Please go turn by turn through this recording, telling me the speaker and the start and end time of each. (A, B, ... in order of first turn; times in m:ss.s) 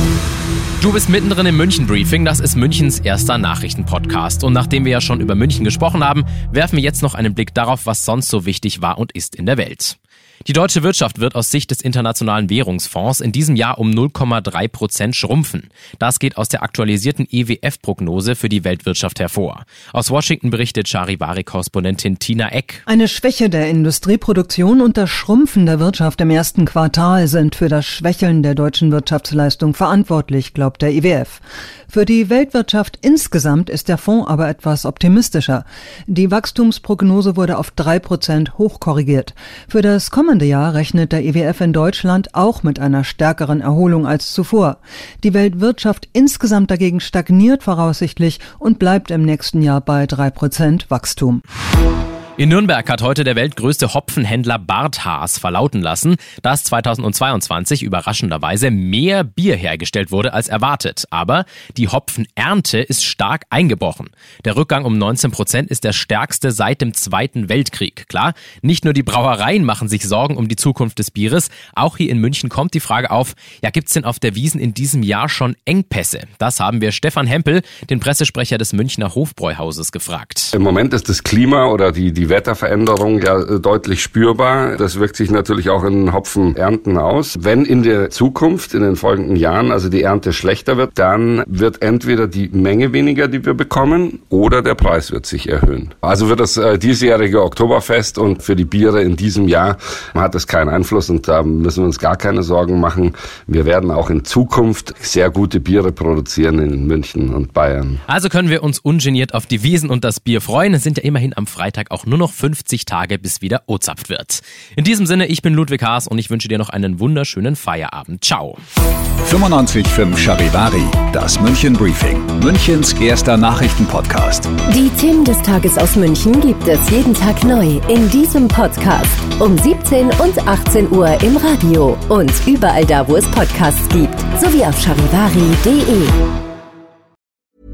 0:00.8-0:22.8 A
0:22.9-0:51.4 B
0:52.4-1:20.5 A
1:20.5-1:48.0 C
1:48.1-1:58.6 A
1:59.2-2:04.5 D
2:04.7-2:16.2 E